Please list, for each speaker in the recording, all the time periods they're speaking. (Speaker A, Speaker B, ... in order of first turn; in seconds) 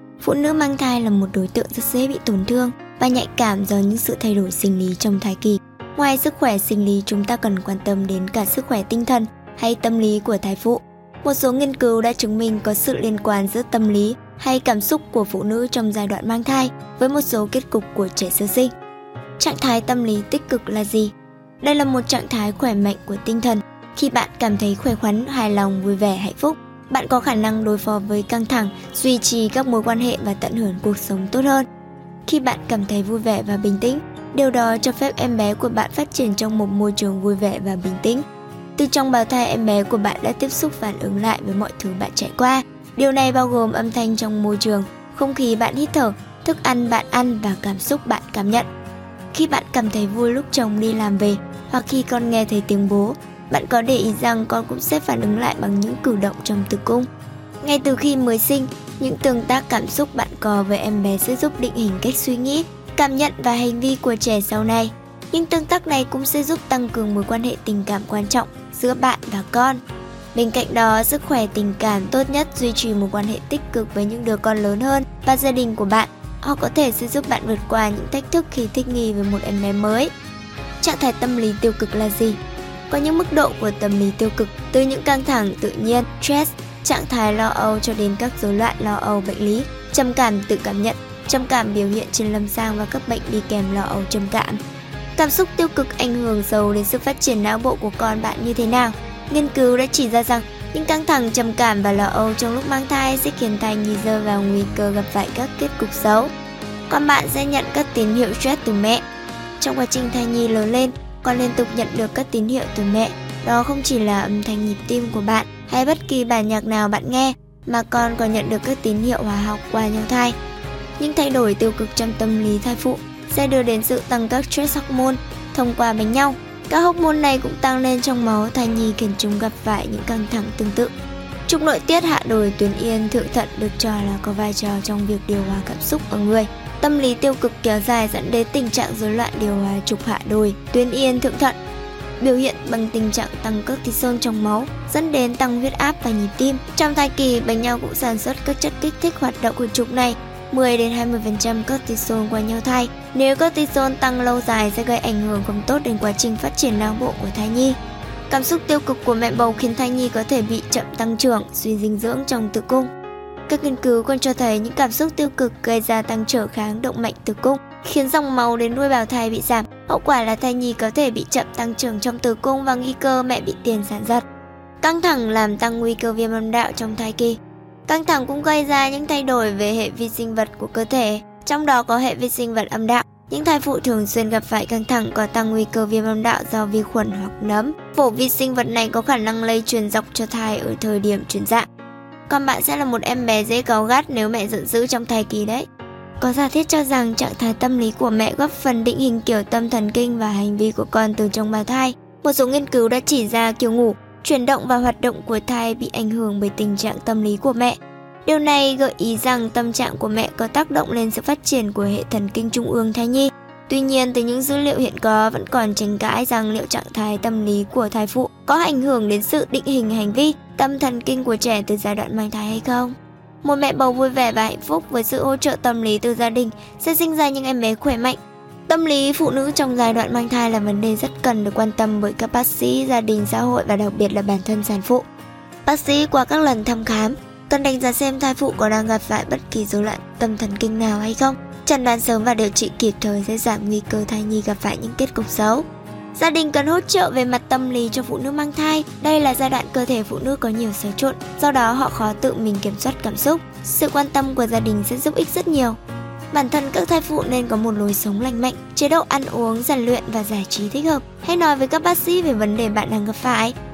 Speaker A: 0.2-18.7, 19.4-31.7, 32.3-38.2, 38.8-48.7, 49.3-57.1, 57.6-69.8, 70.3-80.1, 80.8-94.6, 95.2-106.3, 106.9-109.0, 109.6-120.4, 121.0-130.9, 131.5-141.6, 142.2-157.8, 158.3-162.9, 163.5-174.2, 174.8-191.7, 192.3-195.7, 196.2-235.1, 235.7-255.8, 256.3-263.6